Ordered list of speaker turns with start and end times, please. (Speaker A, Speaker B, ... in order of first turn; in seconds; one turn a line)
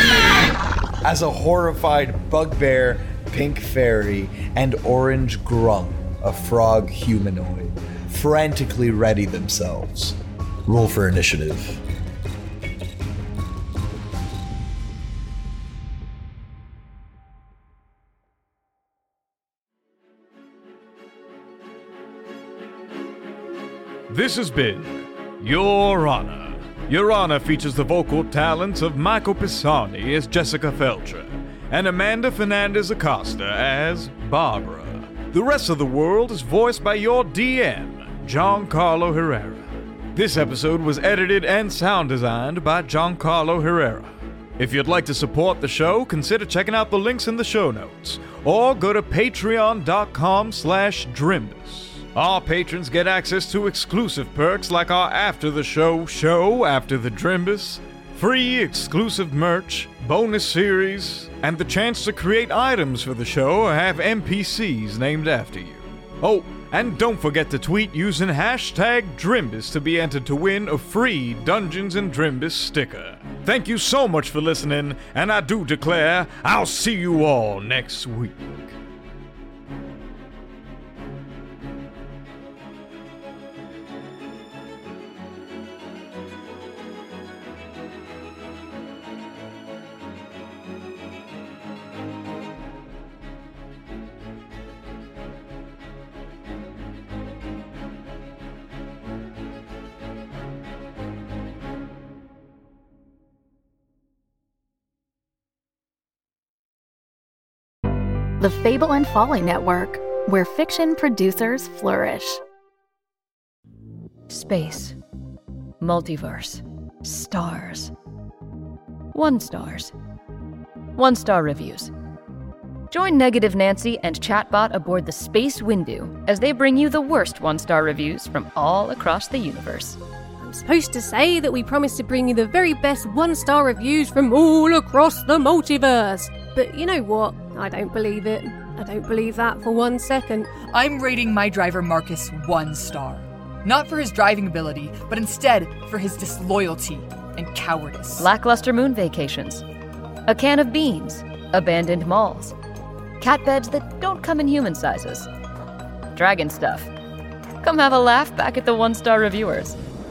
Speaker A: 1.0-11.8
Speaker B: 24.1-78.7
Speaker C: 108.4-112.4
Speaker D: 114.3-115.0
Speaker D: 115.8-117.9
Speaker D: 119.1-119.9
Speaker D: 121.0-121.9
Speaker D: 122.9-130.0
Speaker E: 130.4-140.6
Speaker F: 140.6-148.3
Speaker D: 148.2-149.6
Speaker D: 150.3-152.5
Speaker D: 153.2-155.3
Speaker D: 156.1-156.9
Speaker D: 157.6-159.8